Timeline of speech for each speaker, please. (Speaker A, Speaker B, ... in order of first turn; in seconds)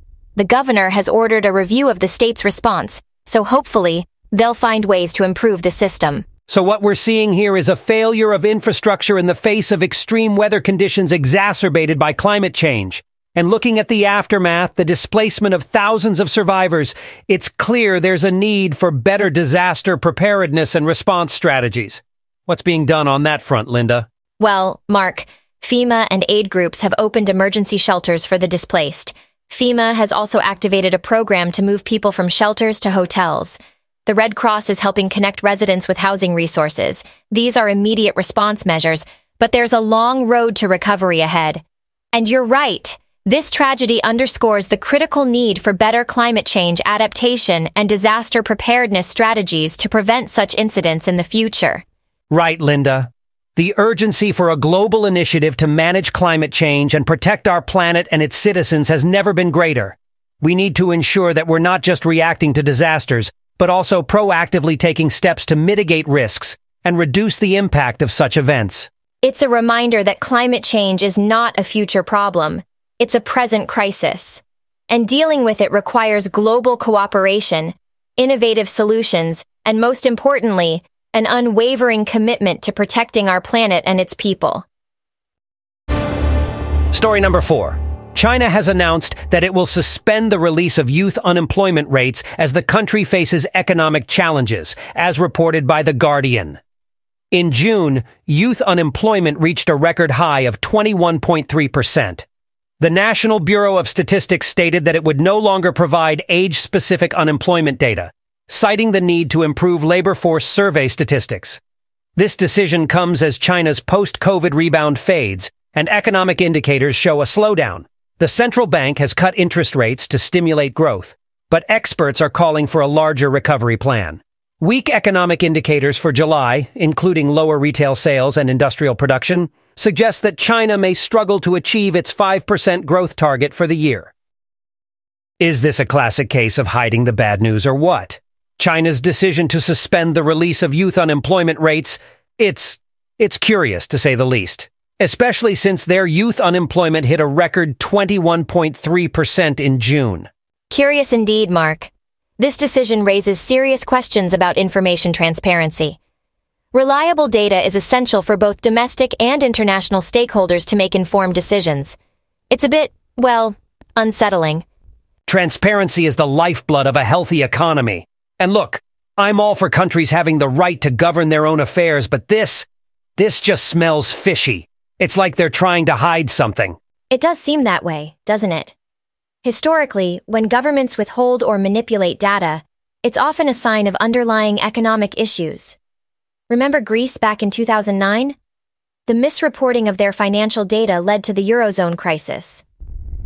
Speaker A: 0.4-6.3, 24.4-51.8, 69.2-84.7, 150.7-156.0, 156.7-162.0, 162.5-164.7, 177.1-178.8, 179.4-185.8, 186.5-188.4, 189.1-192.6
Speaker B: 6.5-24.1, 52.3-68.9, 86.9-96.6, 97.3-102.3, 102.8-111.6, 112.2-134.1, 135.4-150.3, 165.3-176.8